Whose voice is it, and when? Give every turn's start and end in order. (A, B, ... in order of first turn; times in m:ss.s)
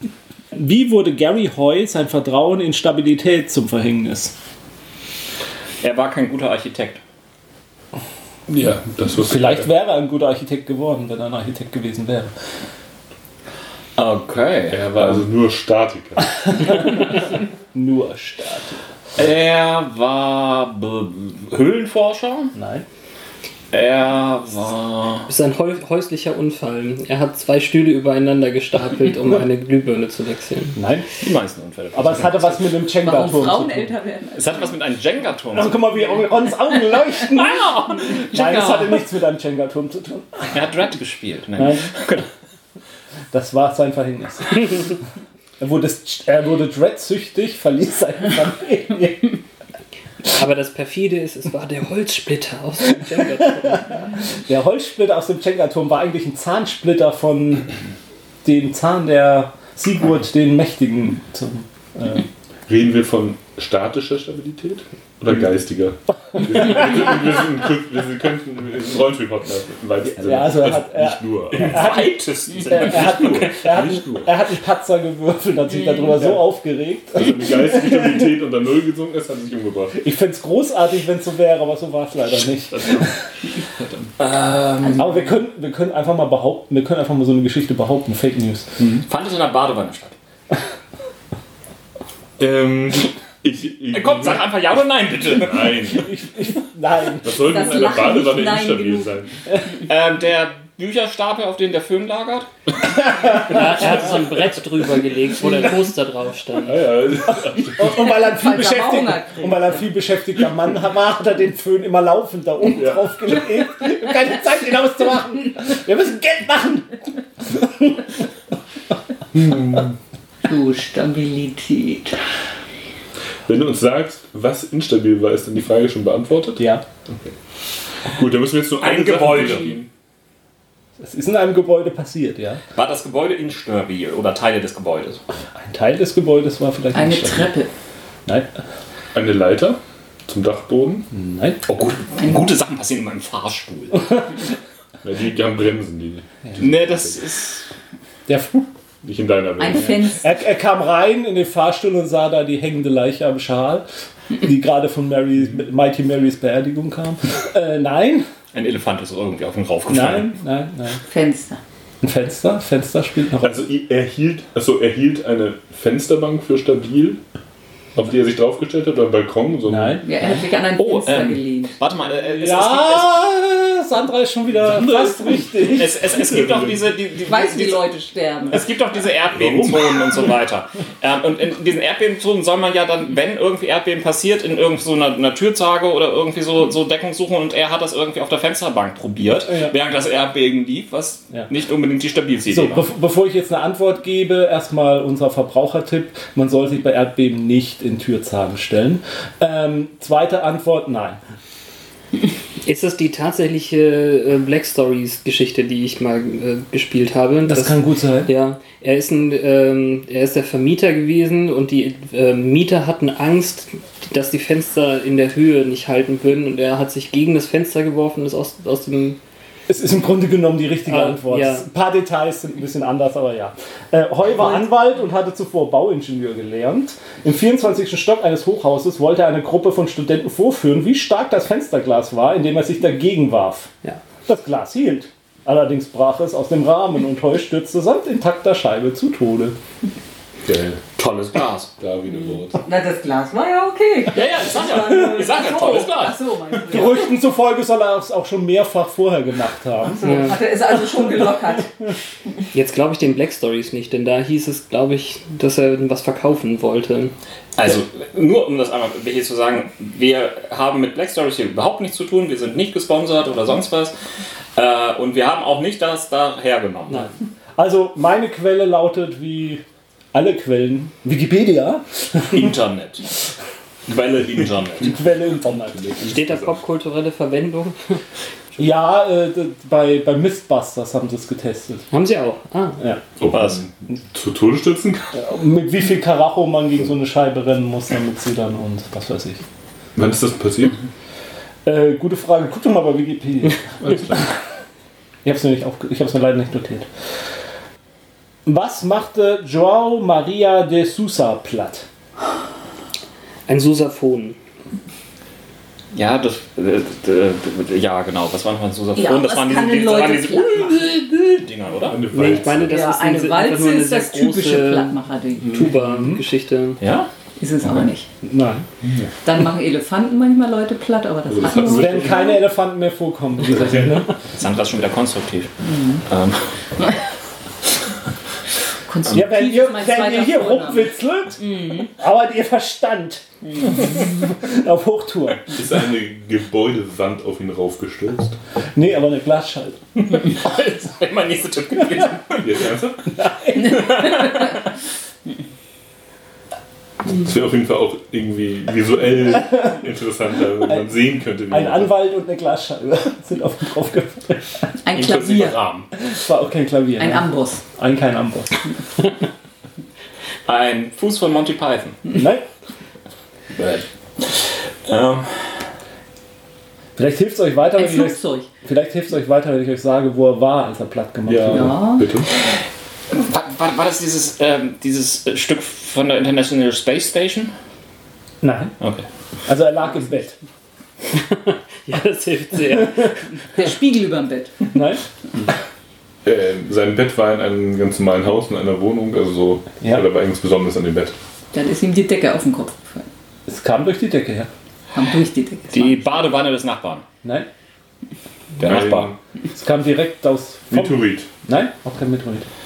0:00.5-0:04.3 A
0:05.8-0:07.0 B
0:08.5-0:09.7 C
0:09.2-0:12.3 A
0:14.0-0:14.9 B
0:14.7-0:16.6 C
0:17.7-0:18.8 A
0:19.2-0:22.5 B
0:22.5-0:22.8 A
0:23.7-0:25.3 B
0:25.3-0:30.8 D
0:30.7-0:31.1 A
0:31.2-0:32.8 B
0:31.9-0:33.9 A
0:33.0-0:34.7 E
0:34.4-0:35.8 B
0:35.5-0:40.5 A
0:38.2-0:38.9 E
0:40.5-0:42.3 B
0:41.6-0:42.1 A
0:43.3-0:45.0 A
0:45.6-0:49.4 A
0:50.3-0:54.0 D
0:53.5-0:53.8 A
0:54.3-0:57.7 A
0:58.4-1:02.2 A
1:02.7-1:12.0 C
1:10.0-1:18.0 A
1:11.5-1:13.5 B
1:12.7-1:14.3 C
1:17.1-1:20.0 C
1:20.0-1:23.2 A
1:22.7-1:24.1 C
1:24.2-1:25.2 B
1:25.0-1:28.7 A
1:29.0-1:30.2 B
1:32.4-1:34.6 C
1:33.9-1:35.8 B
1:35.3-1:36.1 C
1:35.9-1:37.6 A
1:37.2-1:39.4 C
1:37.4-1:39.1 E
1:39.8-1:42.5 B
1:43.0-1:44.6 A
1:43.4-1:46.9 D
1:46.6-1:48.2 C
1:47.6-1:57.0 A
1:48.2-1:49.8 E
1:57.5-1:57.9 A
1:59.3-1:59.9 C
2:00.4-2:02.2 E
2:03.4-2:07.3 C
2:06.6-2:06.8 A
2:08.0-2:09.9 C
2:08.8-2:09.8 B
2:11.0-2:12.6 A
2:12.7-2:15.2 B
2:15.6-2:17.5 A
2:16.9-2:17.7 E
2:19.1-2:21.1 C
2:21.1-2:21.6 A
2:21.7-2:24.2 B
2:25.0-2:27.2 C
2:26.6-2:27.6 B
2:28.3-2:28.6 A
2:29.0-2:30.1 C
2:29.6-2:30.2 E
2:30.1-2:33.8 A
2:34.4-2:38.3 A
2:38.5-2:40.4 B
2:39.9-2:41.0 A
2:41.1-2:41.6 E
2:42.0-2:43.6 A
2:43.4-2:47.2 C
2:47.9-2:50.0 C
2:49.7-2:50.2 A
2:50.0-2:51.8 E
2:50.8-2:53.2 B
2:52.4-2:56.0 A
2:55.6-2:57.8 B
2:56.0-2:56.8 C
2:57.3-2:58.6 E
2:58.5-3:12.8 B
2:59.4-2:59.7 C
3:12.5-3:21.2 A
3:22.6-3:39.2 D
3:27.4-3:28.3 A
3:39.7-3:53.7 A
3:40.9-3:41.6 D
3:54.2-3:59.6 A
4:00.4-4:00.8 C
4:01.0-4:01.7 B
4:01.8-4:02.6 C
4:02.6-4:07.1 E
4:04.1-4:06.2 B
4:06.7-4:10.0 A
4:09.9-4:11.7 E
4:10.0-4:10.4 D
4:12.5-4:17.1 D
4:17.6-4:23.9 B
4:24.6-4:27.1 B
4:27.6-4:29.6 A
4:30.1-4:32.5 A
4:32.3-4:33.1 B
4:33.9-4:35.0 B
4:34.8-4:36.0 A
4:35.6-4:36.6 C
4:36.0-4:37.9 D
4:38.6-4:41.9 A
4:41.9-4:42.8 D
4:43.2-4:45.1 C
4:43.3-4:43.6 B
4:45.1-4:49.4 A
4:49.9-4:50.8 C
4:51.6-4:54.2 A
4:53.8-4:54.3 C
4:55.2-4:56.9 A
4:58.4-5:01.8 A
5:03.5-5:04.4 D
5:05.9-5:12.2 B
5:09.0-5:10.9 E
5:11.9-5:12.9 C
5:12.1-5:16.8 D
5:12.6-5:15.6 E
5:15.4-5:15.7 C
5:15.7-5:16.2 A
5:16.8-5:17.1 B
5:17.4-5:18.1 E
5:18.2-5:18.6 A
5:18.8-5:19.1 C
5:19.2-5:22.4 E
5:21.3-5:22.4 C
5:21.6-5:24.1 A
5:23.5-5:24.0 C
5:24.3-5:26.9 B
5:25.6-5:26.0 E
5:28.9-5:30.9 E
5:29.1-5:33.2 A
5:33.8-5:35.6 A
5:35.5-5:38.4 C
5:38.7-5:39.8 A
5:40.0-5:42.5 B
5:42.4-5:43.1 C
5:43.2-5:43.9 A
5:43.6-5:44.5 B
5:47.0-5:51.9 C
5:50.6-5:50.9 A
5:51.5-5:54.7 A
5:54.8-5:55.6 E
5:54.9-5:55.9 B
5:56.0-5:58.6 A
5:57.0-5:57.6 E
6:00.4-6:02.0 B
6:02.1-6:02.4 A
6:03.6-6:05.6 B
6:07.0-6:11.8 A
6:07.8-6:08.5 E
6:11.3-6:12.3 C
6:11.5-6:12.1 E
6:13.1-6:17.5 B
6:18.4-6:18.7 A
6:18.8-6:19.0 B
6:19.5-6:20.4 A
6:21.3-6:23.2 D
6:23.5-6:24.6 E
6:24.7-6:25.0 A
6:26.2-6:31.2 C
6:31.5-6:33.1 E
6:33.5-6:34.5 A
6:34.9-6:36.3 E
6:35.7-6:37.0 B
6:38.6-6:39.1 B
6:38.6-6:39.2 C
6:39.5-6:42.5 A
6:40.7-6:41.3 C